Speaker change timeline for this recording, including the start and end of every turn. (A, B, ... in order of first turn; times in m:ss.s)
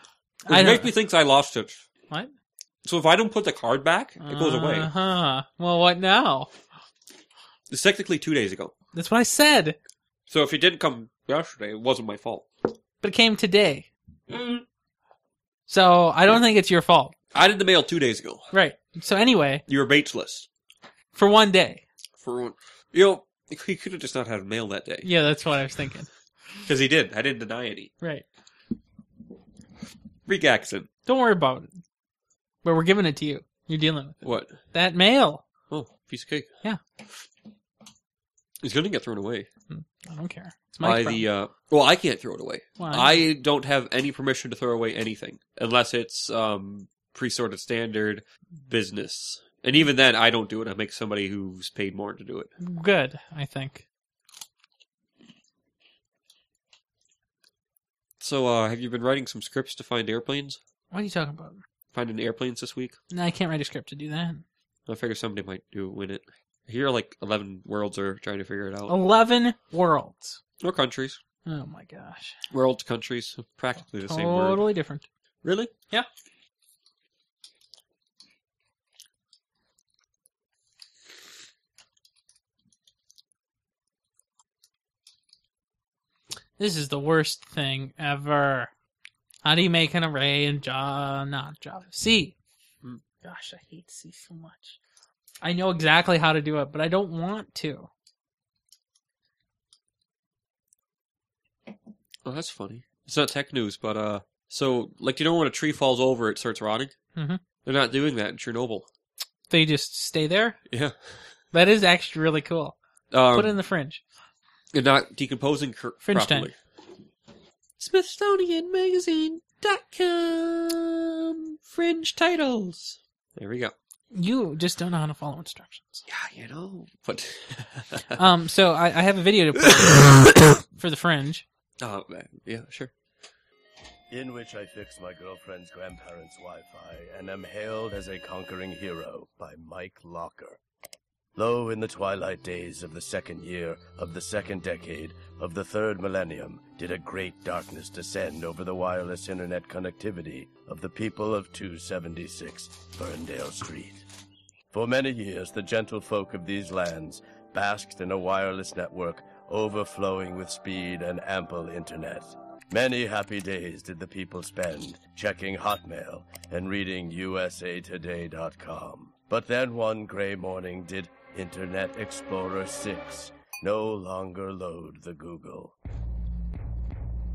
0:00.5-0:00.9 A
0:00.5-0:01.8 B
0:02.8-0:04.9 B
0:04.2-0:06.5 A
0:07.7-0:08.7 B
0:08.9-0:09.8 A
0:10.3-0:12.5 B
0:13.0-0:13.9 A
0:14.3-0:14.6 B
0:15.7-0:17.2 A
0:17.3-0:18.5 B
0:18.5-0:19.6 A
0:19.7-0:20.5 B
0:21.2-0:21.8 A
0:22.2-0:25.1 B
0:25.0-0:26.1 A
0:26.7-0:27.9 B
0:30.3-0:30.9 B
0:31.1-0:31.8 A
0:32.6-0:34.2 A
0:34.2-0:34.6 B
0:34.7-0:35.4 A
0:35.7-0:36.5 B
0:38.6-0:39.5 B
0:39.7-0:41.2 A
0:40.8-0:52.5 B
0:42.8-0:43.1 A
0:52.6-0:53.8 A
0:58.2-1:00.6 B
1:00.9-1:01.6 A
1:01.9-1:03.0 B
1:03.1-1:04.4 A
1:04.9-1:09.0 B
1:08.9-1:10.4 A
1:10.6-1:11.2 B
1:11.4-1:12.4 A
1:12.5-1:14.6 B
1:14.1-1:15.0 A
1:15.4-1:15.7 B
1:26.6-1:28.7 A
1:29.4-1:32.4 A
1:33.2-1:34.8 A
1:35.4-1:37.9 A
1:42.2-1:46.9 B
1:47.2-1:47.4 A
1:47.6-1:48.9 B
1:49.5-1:50.6 A
1:51.5-1:52.8 A
1:53.1-1:53.6 B
1:53.3-1:54.0 A
1:54.7-1:56.6 B
1:56.1-1:56.5 A
1:57.8-2:03.7 B
2:04.1-2:06.1 A
2:06.1-2:08.2 B
2:08.2-2:11.4 A
2:09.6-2:10.5 B
2:11.8-2:12.9 B
2:14.1-2:20.6 C
2:21.4-2:34.1 C
2:34.7-2:55.8 C